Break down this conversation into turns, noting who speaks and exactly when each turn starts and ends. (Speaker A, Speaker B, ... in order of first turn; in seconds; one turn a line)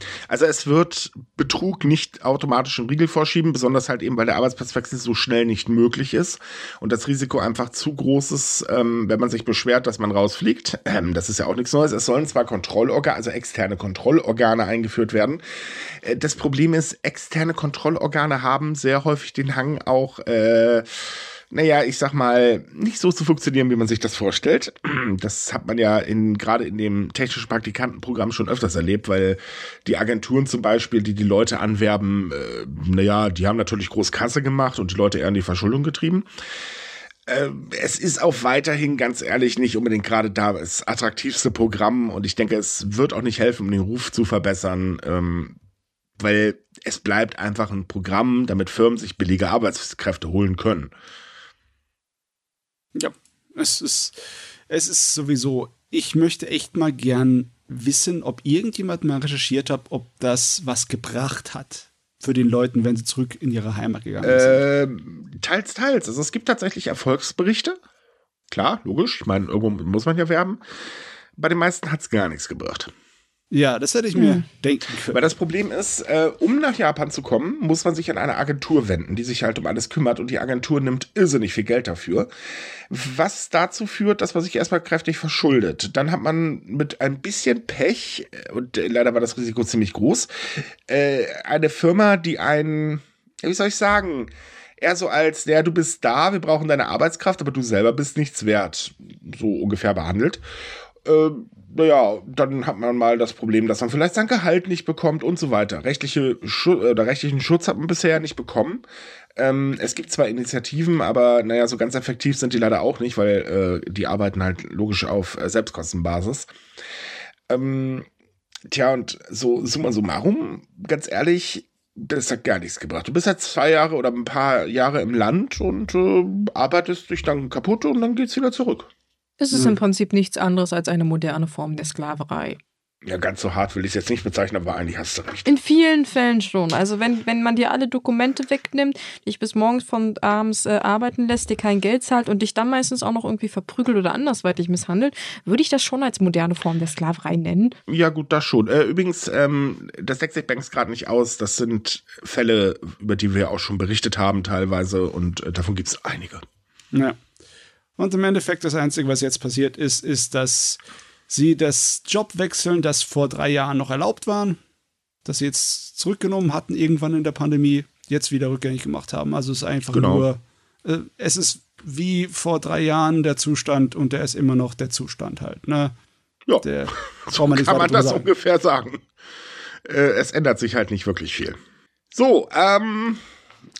Speaker A: 0.3-36.3
Speaker A: 37.3-45.6
Speaker A: 46.2-50.9
Speaker B: 53.0-64.6
Speaker A: 64.2-67.8
Speaker A: 68.5-70.6
Speaker A: 71.4-72.9
Speaker B: 73.5-75.3
Speaker C: 74.2-74.4
Speaker A: 75.1-82.3
Speaker A: 82.9-100.4
Speaker A: 101.0-108.8
Speaker A: 109.4-116.5
Speaker A: 117.5-118.1
Speaker A: 118.7-128.9
Speaker C: 129.4-132.6
Speaker A: 133.1-135.5
Speaker C: 135.5-147.8
Speaker A: 147.9-156.4
Speaker B: 158.0-164.6
Speaker B: 165.2-175.9
Speaker A: 169.9-170.3
Speaker B: 176.6-178.3
Speaker A: 177.2-179.1
Speaker A: 179.8-181.6
Speaker A: 182.1-183.2